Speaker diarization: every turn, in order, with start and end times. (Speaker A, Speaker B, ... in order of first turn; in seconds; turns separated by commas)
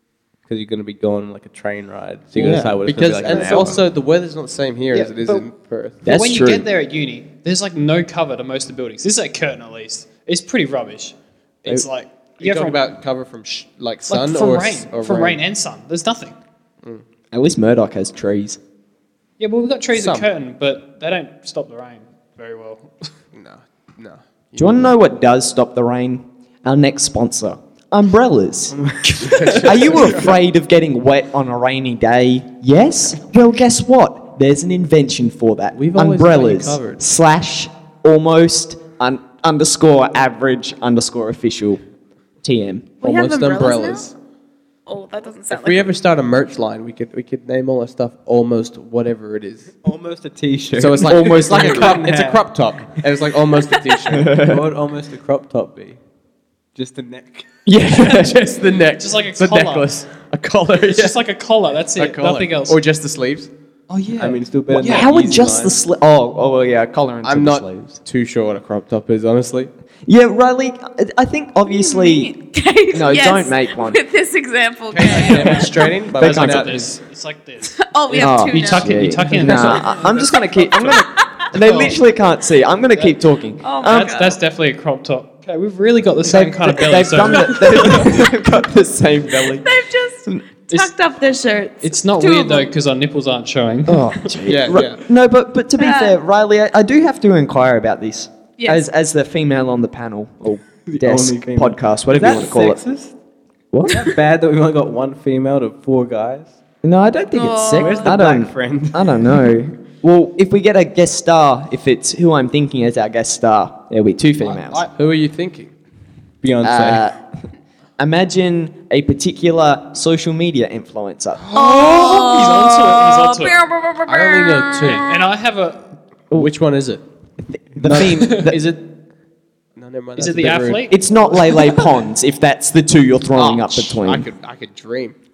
Speaker A: 0.5-3.9, Speaker B: 2.4-3.7, Speaker C: 2.4-6.0, Speaker D: 4.9-5.5, Speaker D: 6.0-12.8, Speaker B: 6.0-6.7, Speaker C: 12.4-15.4, Speaker D: 14.1-16.4, Speaker B: 17.3-18.6, Speaker D: 19.4-22.9, Speaker C: 19.9-20.3, Speaker C: 23.3-24.9, Speaker B: 24.6-41.8, Speaker C: 28.9-30.4, Speaker A: 28.9-29.6, Speaker A: 35.8-37.0, Speaker C: 35.9-36.8, Speaker B: 42.4-43.0, Speaker E: 43.0-44.1, Speaker C: 43.0-44.1, Speaker E: 44.9-45.9, Speaker C: 45.5-49.8, Speaker A: 49.8-52.5, Speaker C: 50.8-54.4, Speaker B: 51.0-52.0, Speaker B: 54.2-54.6, Speaker A: 54.3-56.0, Speaker A: 56.8-57.5, Speaker B: 57.6-58.5, Speaker C: 57.9-61.2, Speaker D: 59.0-60.0, Speaker D: 60.8-62.8, Speaker C: 62.0-63.5, Speaker D: 63.9-65.1, Speaker A: 64.2-65.8, Speaker B: 64.7-68.0, Speaker C: 67.2-69.7, Speaker B: 70.1-72.3, Speaker E: 71.7-75.9, Speaker B: 72.9-74.0, Speaker C: 74.9-76.9, Speaker D: 75.1-82.0, Speaker B: 75.4-76.8, Speaker E: 77.6-79.9, Speaker B: 78.2-84.2, Speaker E: 83.6-84.4, Speaker D: 83.8-88.1, Speaker B: 86.2-89.7, Speaker E: 89.4-92.7, Speaker D: 91.8-94.4, Speaker B: 93.9-102.8, Speaker C: 94.4-95.0, Speaker E: 95.8-96.2, Speaker E: 98.6-98.8, Speaker A: 100.8-103.1, Speaker B: 103.7-104.0, Speaker A: 103.9-106.6, Speaker B: 106.8-114.9, Speaker E: 107.3-108.2, Speaker A: 107.7-109.3, Speaker D: 114.4-114.9, Speaker C: 114.9-115.7, Speaker A: 116.4-117.1, Speaker B: 116.6-117.4, Speaker B: 118.0-121.4, Speaker E: 121.5-125.2, Speaker D: 121.6-123.6, Speaker C: 124.1-125.1, Speaker D: 124.8-125.9, Speaker C: 126.3-127.0, Speaker B: 127.5-128.6, Speaker C: 127.8-128.9, Speaker C: 129.8-130.9, Speaker D: 130.2-131.0, Speaker B: 130.9-134.3, Speaker C: 133.3-135.2